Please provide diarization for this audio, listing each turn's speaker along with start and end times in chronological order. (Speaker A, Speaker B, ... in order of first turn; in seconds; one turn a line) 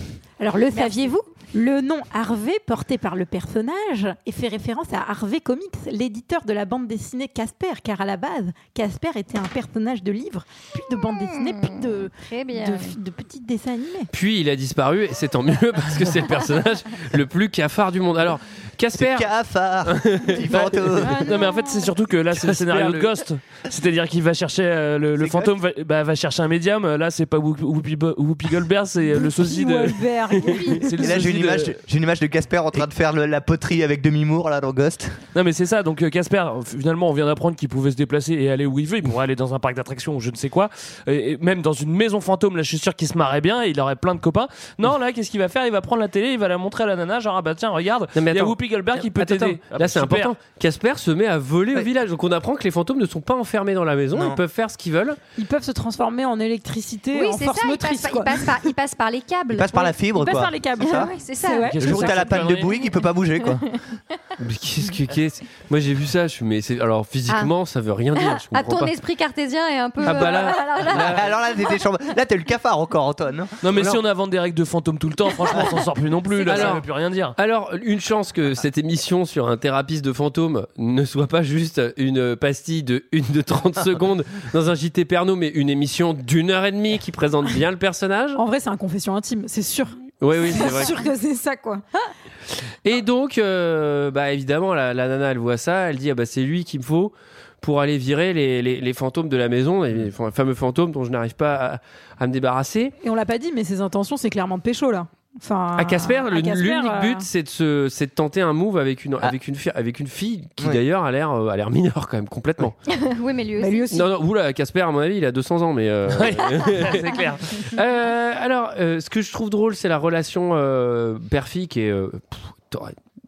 Speaker A: 0.4-14.1
Speaker B: 0.7-1.1
Speaker B: 11.0-12.9
Speaker C: 14.1-19.3
Speaker D: 18.9-21.3
Speaker C: 19.9-21.0
Speaker A: 21.0-21.9
Speaker E: 21.2-31.8
Speaker C: 22.3-23.1
Speaker D: 25.2-25.5
Speaker A: 29.0-31.1
Speaker D: 31.0-35.2
Speaker E: 35.3-50.3
Speaker C: 48.1-55.2
Speaker D: 54.1-54.4
Speaker A: 55.4-58.7
Speaker B: 57.1-59.7
Speaker D: 59.5-61.1
Speaker A: 59.7-62.2
Speaker B: 60.8-61.8
Speaker E: 61.7-62.7
Speaker D: 61.8-63.6
Speaker C: 64.4-68.9
Speaker B: 68.2-71.2
Speaker C: 70.0-71.2
Speaker D: 70.8-73.5
Speaker E: 73.6-77.3
Speaker C: 73.7-74.0
Speaker B: 76.3-76.8
Speaker C: 76.5-76.8
Speaker C: 77.4-88.4
Speaker A: 88.3-92.1
Speaker C: 90.2-91.0
Speaker C: 92.8-103.0
Speaker A: 103.0-107.2
Speaker C: 105.8-112.8
Speaker B: 112.9-114.0
Speaker A: 113.6-113.9
Speaker C: 113.9-123.0
Speaker E: 116.1-117.4